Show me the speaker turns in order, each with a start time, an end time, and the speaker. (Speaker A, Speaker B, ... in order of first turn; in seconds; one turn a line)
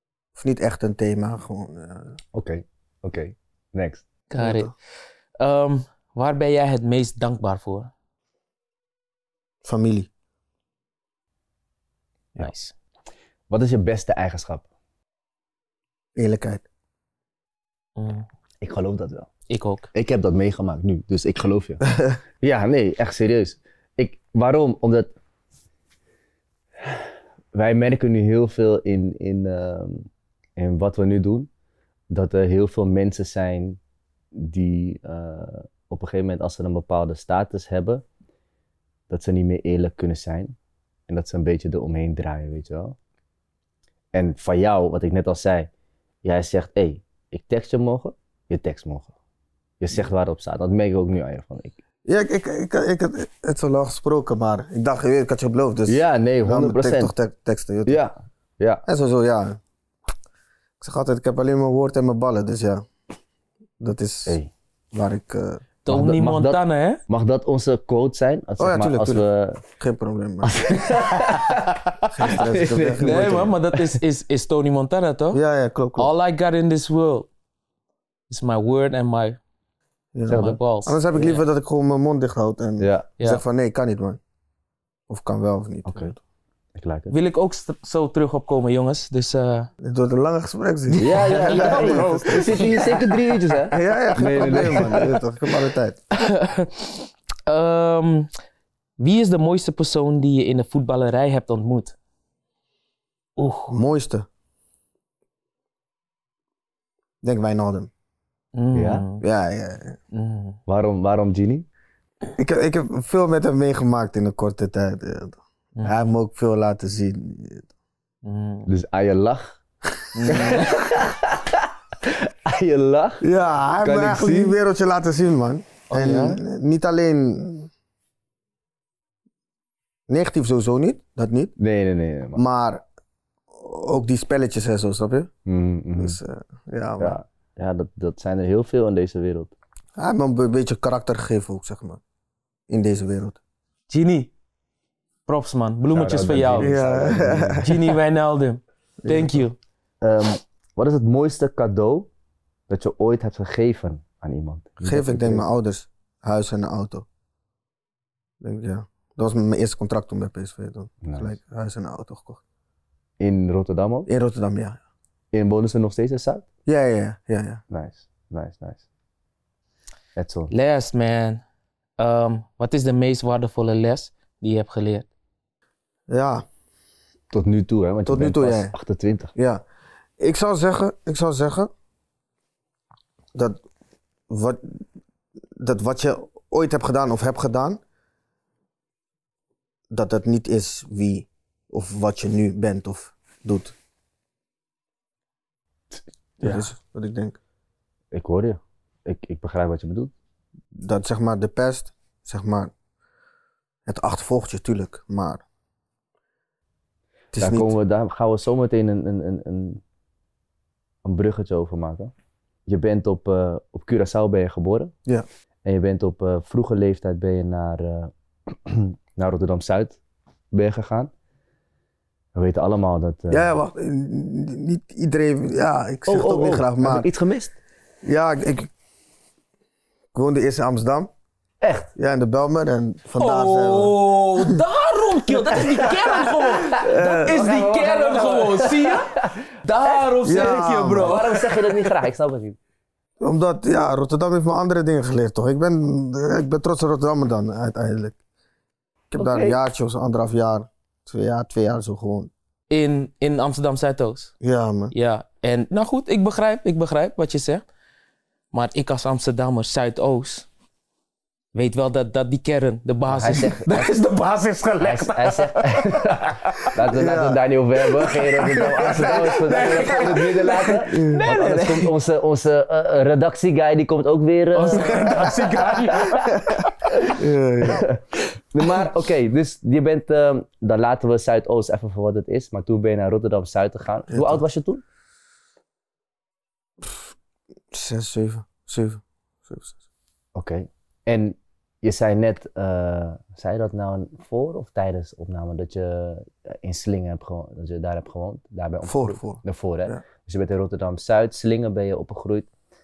Speaker A: 0.3-2.2
Speaker B: 2.3-4.1
Speaker C: 4.3-4.7
Speaker A: 4.4-4.7
Speaker C: 5.4-7.9
Speaker A: 9.6-10.1
Speaker C: 12.4-12.7
Speaker B: 13.5-14.6
Speaker A: 16.2-16.6
Speaker C: 18.0-18.2
Speaker B: 18.6-19.3
Speaker C: 19.5-19.9
Speaker B: 19.9-21.9
Speaker B: 22.4-25.1
Speaker B: 26.8-31.5
Speaker B: 32.1-33.8
Speaker B: 34.3-38.0
Speaker B: 39.1-40.6
Speaker B: 41.1-43.0
Speaker B: 44.1-45.7
Speaker B: 46.2-49.1
Speaker B: 49.8-51.8
Speaker A: 52.1-58.0
Speaker B: 55.9-57.1
Speaker B: 57.9-58.9
Speaker A: 58.9-59.6
Speaker A: 60.8-62.8
Speaker A: 63.8-64.4
Speaker B: 64.2-64.5
Speaker A: 64.9-65.6
Speaker C: 65.8-67.0
Speaker B: 65.9-69.6
Speaker A: 68.6-69.2
Speaker A: 69.8-70.6
Speaker B: 70.4-74.0
Speaker C: 71.1-71.5
Speaker A: 72.1-73.5
Speaker C: 73.0-75.4
Speaker A: 75.3-76.1
Speaker C: 76.0-77.3
Speaker C: 78.3-79.4
Speaker A: 80.1-84.2
Speaker C: 80.3-81.5
Speaker B: 80.3-80.6
Speaker B: 82.8-83.1
Speaker A: 85.1-86.2
Speaker B: 85.9-86.1
Speaker B: 86.7-87.1
Speaker C: 87.1-89.7
Speaker A: 89.8-92.9
Speaker C: 91.0-93.3
Speaker B: 91.0-95.1
Speaker A: 93.7-96.0
Speaker C: 94.3-95.0
Speaker C: 96.2-98.3
Speaker C: 99.0-102.0
Speaker C: 103.4-103.8
Speaker A: 103.7-104.3
Speaker A: 107.2-107.9
Speaker C: 108.5-109.2
Speaker B: 108.8-109.1
Speaker A: 109.2-110.0
Speaker C: 110.1-110.6
Speaker B: 110.7-111.7
Speaker A: 112.4-117.7
Speaker C: 118.2-118.7
Speaker B: 118.7-119.6
Speaker C: 120.1-120.7
Speaker A: 120.2-120.6
Speaker B: 120.3-123.2
Speaker A: 123.2-127.7
Speaker B: 123.8-124.6
Speaker C: 125.9-126.4
Speaker A: 130.1-131.5
Speaker B: 131.6-132.4
Speaker A: 132.3-132.8
Speaker A: 133.5-135.3
Speaker B: 135.5-136.2
Speaker A: 136.0-137.2
Speaker B: 137.0-139.5
Speaker A: 140.0-142.0
Speaker A: 142.7-143.4
Speaker C: 143.9-144.3
Speaker C: 145.2-146.7
Speaker B: 145.9-147.7
Speaker A: 146.6-147.8
Speaker C: 147.6-149.6
Speaker A: 149.0-149.4
Speaker B: 150.0-152.1
Speaker B: 152.7-155.5
Speaker A: 154.8-157.1
Speaker A: 158.4-162.4
Speaker B: 161.0-161.3
Speaker B: 163.2-164.1
Speaker A: 164.1-164.8
Speaker B: 165.3-166.4
Speaker A: 166.7-167.6
Speaker B: 167.7-168.8
Speaker B: 170.2-170.5
Speaker C: 170.5-171.4
Speaker C: 172.0-175.1
Speaker A: 176.1-176.4
Speaker B: 177.3-179.3
Speaker A: 178.1-178.7
Speaker A: 179.3-179.6
Speaker A: 180.2-181.7
Speaker A: 183.3-183.6
Speaker A: 184.3-184.8
Speaker A: 185.6-187.8
Speaker A: 189.9-193.8
Speaker A: 196.4-197.4
Speaker B: 198.1-200.1
Speaker A: 200.8-202.7
Speaker A: 203.9-205.4
Speaker A: 207.3-207.7
Speaker B: 207.4-209.8
Speaker B: 211.0-212.1
Speaker B: 212.7-214.9
Speaker B: 215.7-220.0
Speaker B: 220.5-221.1
Speaker B: 222.3-223.5
Speaker A: 223.3-227.1
Speaker B: 226.1-227.5
Speaker A: 228.0-228.7
Speaker A: 230.1-231.1
Speaker B: 231.6-231.9
Speaker A: 232.0-234.5
Speaker C: 233.2-241.9
Speaker B: 235.9-242.6
Speaker A: 236.8-237.4
Speaker A: 240.2-241.2
Speaker A: 243.2-248.2
Speaker A: 249.1-252.3
Speaker B: 249.2-249.6
Speaker C: 252.7-254.3
Speaker A: 254.4-254.9
Speaker C: 254.9-257.6
Speaker C: 258.5-260.5
Speaker C: 261.5-266.7
Speaker B: 263.1-263.9
Speaker B: 264.8-276.2
Speaker A: 266.9-267.5
Speaker C: 268.0-271.9
Speaker A: 268.5-270.0
Speaker A: 270.9-271.3
Speaker C: 274.5-276.7
Speaker A: 274.8-275.4
Speaker A: 276.2-277.9
Speaker B: 277.7-284.8
Speaker A: 284.1-284.4
Speaker A: 286.8-287.1
Speaker A: 287.7-289.8
Speaker B: 290.4-302.5
Speaker A: 298.8-300.0